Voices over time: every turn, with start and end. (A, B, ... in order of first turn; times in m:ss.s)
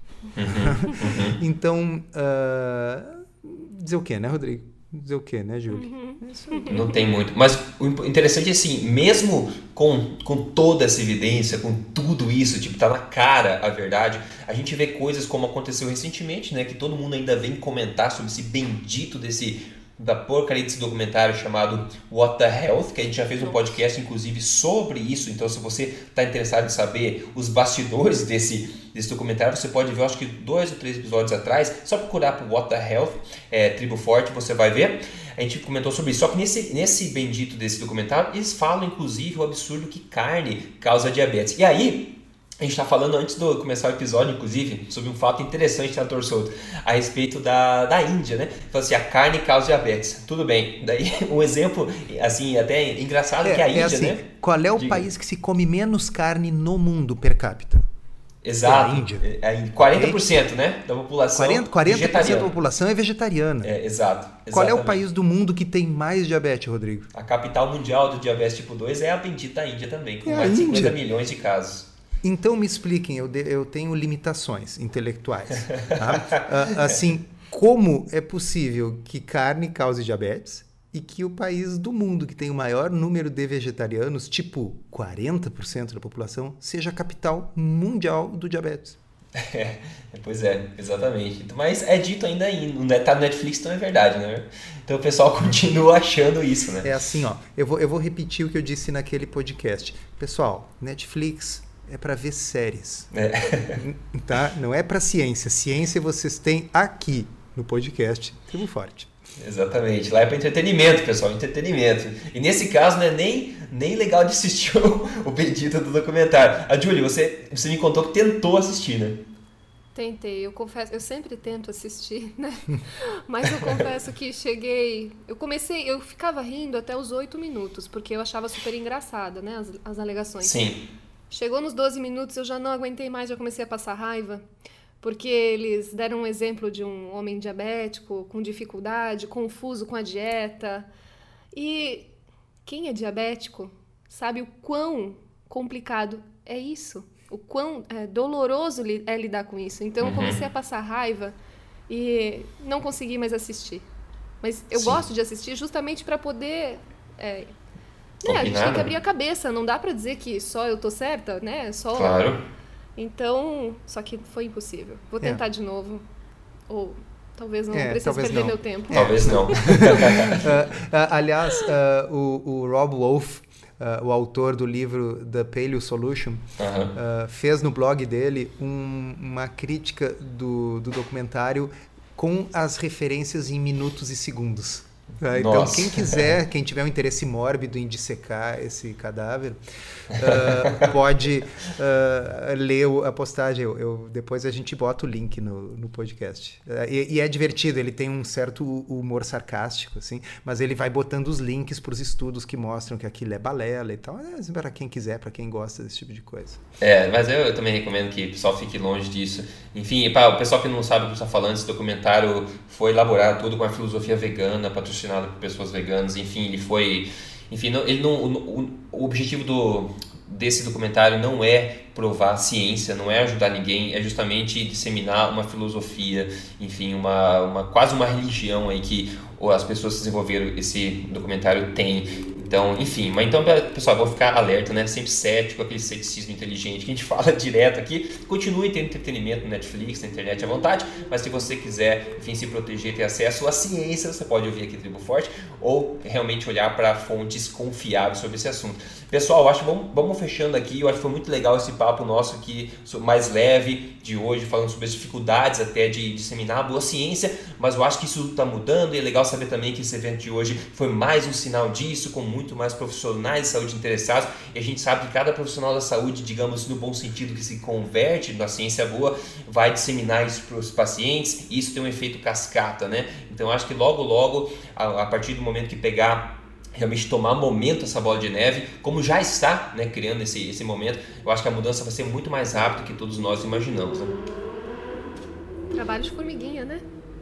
0:00.4-0:01.4 A
0:00.5-0:06.9 B
0:05.7-0:07.0 C
0:06.7-0:54.2 A
0:23.4-0:23.7 C
0:53.4-0:57.8 B
0:54.8-0:55.0 A
0:58.4-1:02.5 A
0:58.6-0:59.2 B
0:59.8-1:00.2 B
1:01.4-1:03.7 B
1:03.6-1:05.0 A
1:04.5-1:07.1 B
1:07.1-1:11.9 A
1:10.2-1:11.0 B
1:12.2-1:29.0 B
1:15.7-1:16.5 A
1:29.4-1:36.9 A
1:36.8-1:43.1 B
1:43.1-1:43.8 A
1:43.7-1:49.1 B
1:49.4-1:59.2 A
2:00.0-2:10.6 C
2:10.4-2:10.8 A
2:11.3-2:14.4 C
2:15.0-2:20.9 C
2:21.5-2:22.1 C
2:22.7-2:31.4 C
2:30.0-2:30.4 A
2:31.9-2:33.9 C
2:34.4-2:37.5 C
2:34.7-2:35.0 A
2:38.2-2:42.3 C
2:38.2-2:38.9 A
2:41.9-2:42.4 A
2:43.0-2:46.0 C
2:46.7-2:50.4 C
2:47.7-3:26.6 B
2:48.9-2:50.4 A
2:56.6-2:56.9 A
3:05.4-3:06.3 A
3:10.2-3:10.8 A
3:26.8-4:44.2 A
4:45.7-4:46.8 C